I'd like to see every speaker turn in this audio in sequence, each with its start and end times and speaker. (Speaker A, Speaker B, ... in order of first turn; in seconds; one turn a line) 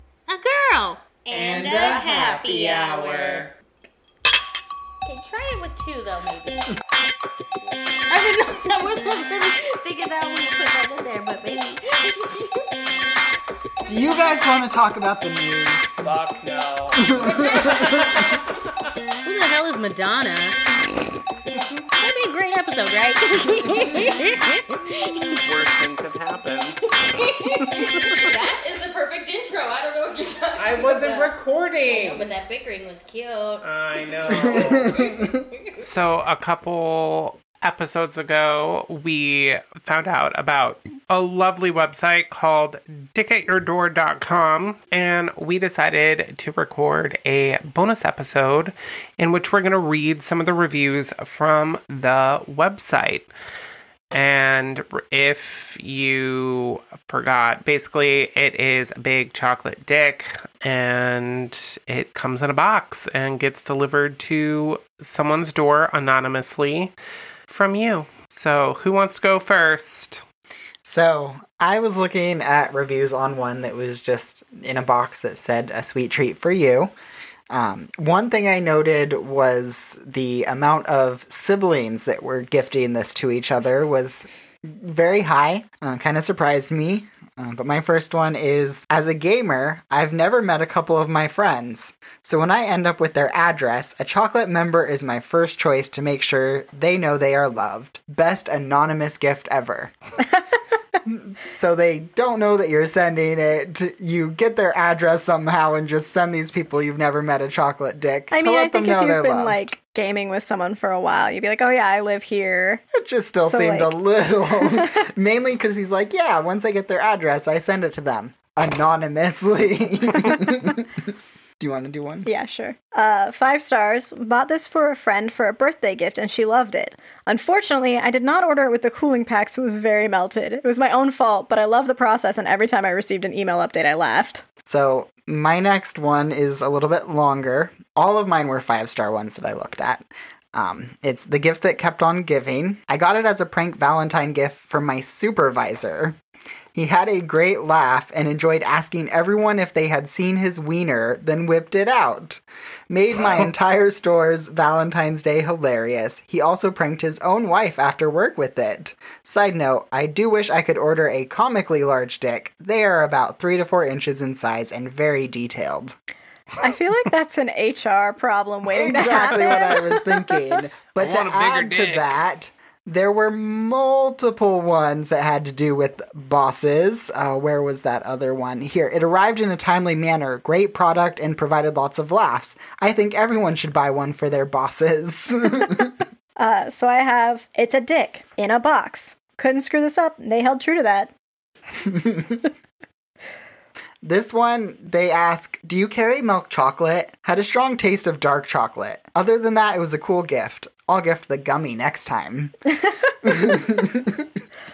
Speaker A: 0.3-3.5
Speaker B: 1.3-3.5
Speaker A: 5.0-6.6
Speaker A: 8.1-12.6
Speaker C: 13.9-16.1
Speaker B: 16.0-18.4
Speaker C: 17.0-18.0
Speaker A: 19.2-20.6
Speaker A: 21.9-25.3
Speaker B: 25.4-27.0
Speaker A: 27.2-31.3
Speaker B: 27.6-28.1
Speaker B: 30.6-32.3
Speaker A: 31.9-35.5
Speaker B: 33.6-35.2
Speaker C: 34.4-35.3
Speaker B: 35.8-53.3
Speaker B: 54.1-66.9
Speaker B: 67.5-70.2
Speaker C: 70.8-76.9
Speaker C: 77.5-99.9
Speaker C: 101.0-109.7
Speaker D: 108.3-112.8
Speaker C: 112.9-120.9
Speaker D: 113.4-113.9
Speaker D: 114.6-114.9
Speaker C: 121.6-122.3
Speaker D: 122.2-134.4
Speaker C: 134.7-146.2
Speaker C: 146.8-166.0
Speaker D: 166.6-170.6
Speaker C: 168.7-186.1
Speaker B: 171.0-172.2
Speaker D: 186.4-191.1
Speaker C: 194.0-202.6
Speaker C: 203.2-204.2